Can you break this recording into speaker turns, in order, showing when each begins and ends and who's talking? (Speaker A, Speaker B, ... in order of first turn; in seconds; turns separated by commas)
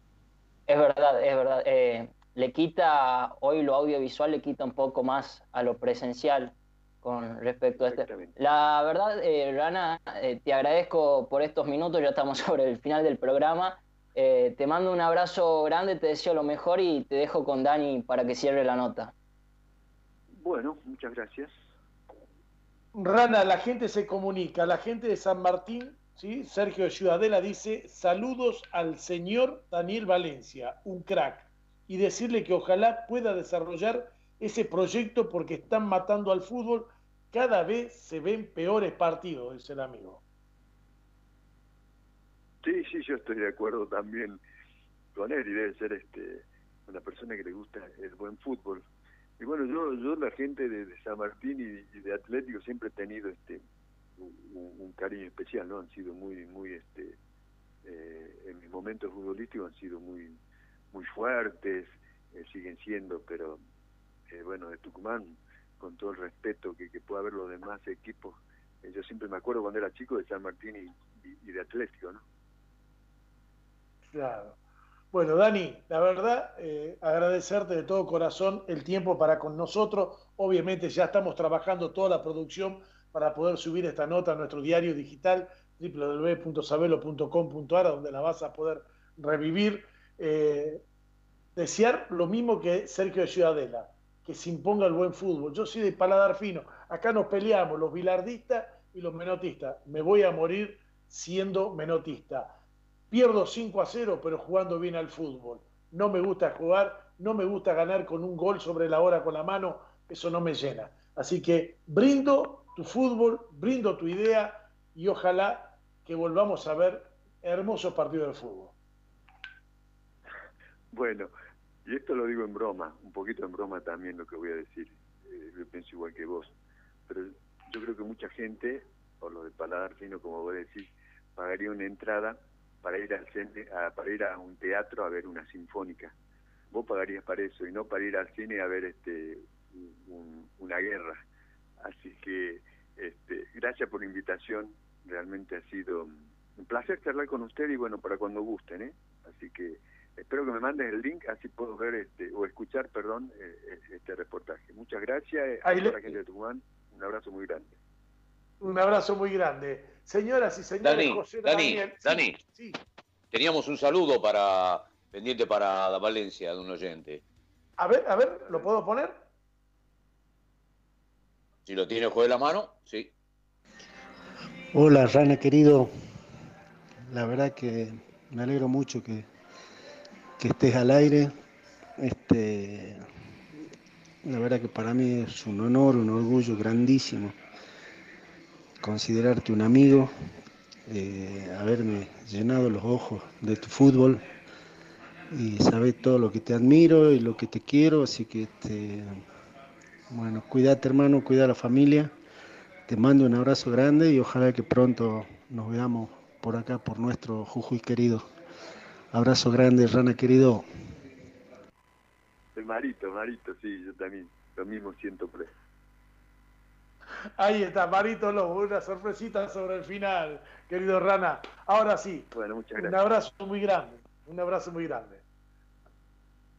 Speaker A: 0.7-19.1, Speaker B: 7.8-8.3, Speaker B: 20.3-21.5, Speaker C: 22.9-40.2, Speaker B: 42.6-44.4, Speaker B: 45.1-48.8, Speaker B: 49.4-53.6, Speaker B: 54.2-57.2, Speaker B: 57.8-60.4, Speaker B: 60.9-63.6, Speaker B: 64.3-72.2, Speaker C: 74.1-74.6, Speaker C: 75.1-90.8, Speaker C: 91.5-102.5, Speaker C: 103.1-118.7, Speaker B: 120.9-121.3, Speaker B: 121.8-126.5, Speaker B: 127.1-136.1, Speaker B: 136.7-141.2, Speaker B: 141.8-157.7, Speaker C: 155.6-155.9, Speaker C: 158.6-162.8, Speaker D: 160.8-162.4, Speaker D: 163.3-167.2, Speaker C: 167.8-169.2, Speaker D: 171.6-173.1, Speaker E: 174.7-175.9, Speaker E: 177.1-179.3, Speaker E: 180.4-181.3, Speaker E: 182.0-183.0, Speaker E: 184.2-187.3, Speaker E: 188.8-190.1, Speaker E: 190.9-194.2, Speaker E: 195.3-199.2, Speaker E: 200.1-202.1, Speaker E: 202.9-208.3, Speaker E: 209.1-210.7, Speaker B: 212.5-215.5, Speaker C: 217.4-225.2, Speaker B: 222.3-222.9